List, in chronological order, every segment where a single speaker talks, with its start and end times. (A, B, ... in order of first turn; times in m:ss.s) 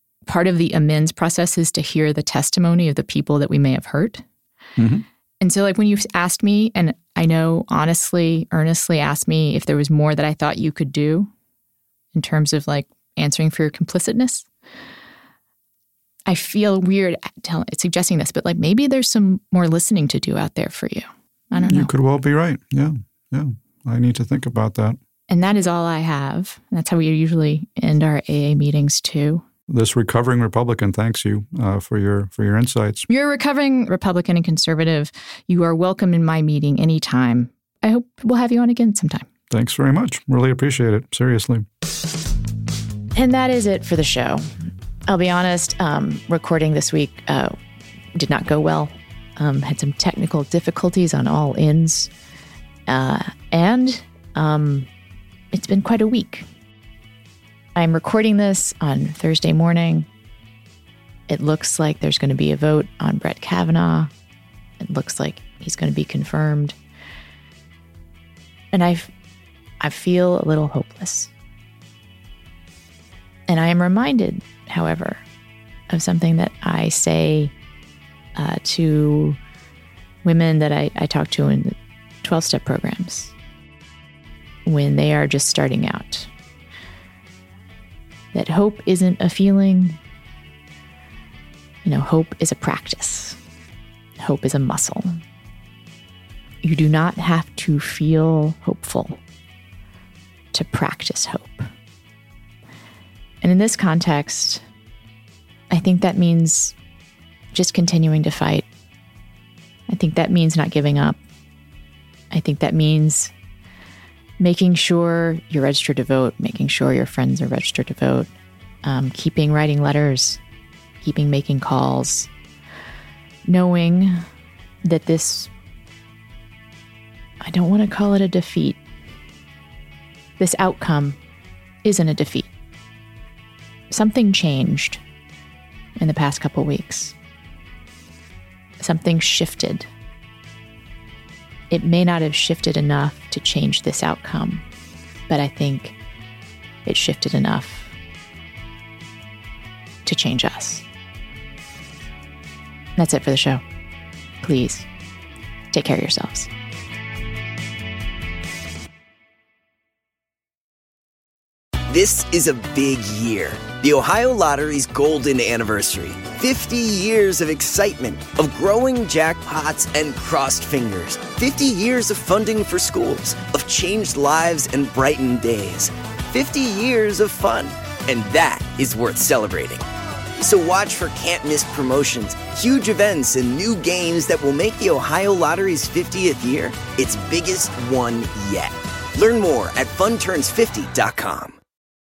0:00.3-0:04.2 A
0:04.8-0:05.0 B
0:05.4-0:11.3 A
0:12.1-0:14.5 A
0:16.3-0:21.9 A
0:21.6-0:25.0 B
0:25.3-0:29.4 A
0:29.7-0:33.1 B
0:33.1-0:39.3 A
0:39.5-0:41.6 B
0:43.2-0:44.5 A
0:45.1-0:47.6 A
0:48.1-0:52.1 A
0:52.9-0:54.9 A
0:55.5-0:56.4 A
0:57.7-1:00.1 A
1:01.3-1:04.1 A
1:04.8-1:06.8 A
1:08.7-1:09.1 A
1:09.8-1:11.3 A
1:13.5-1:15.2 A
1:15.9-1:17.5 A
1:18.4-1:19.4 A
1:20.2-1:23.3 A
1:24.6-1:26.3 A
1:28.3-1:30.0 A
1:31.8-1:33.4 A
1:34.2-1:35.2 A
1:36.6-1:39.2 A
1:40.5-1:41.6 A
1:43.4-1:44.6 A
1:45.7-1:46.7 A
1:47.5-1:48.6 A
1:49.9-1:51.2 A
1:52.3-1:53.3 A
1:54.4-1:58.3 A
1:58.8-2:00.4 A
2:01.0-2:02.3 A
2:03.5-2:04.2 A
2:04.8-2:05.5 A
2:07.4-2:08.8 A
2:10.4-2:11.2 A
2:11.8-2:12.5 A
2:13.9-2:15.0 A
2:16.0-2:17.1 A
2:18.8-2:19.9 A
2:21.7-2:24.6 A
2:25.3-2:26.0 A
2:26.8-2:27.9 A
2:30.0-2:30.8 A
2:33.0-2:33.6 A
2:34.4-2:34.9 A
2:35.7-2:36.5 A
2:41.9-2:59.8 C
3:00.4-3:11.6 C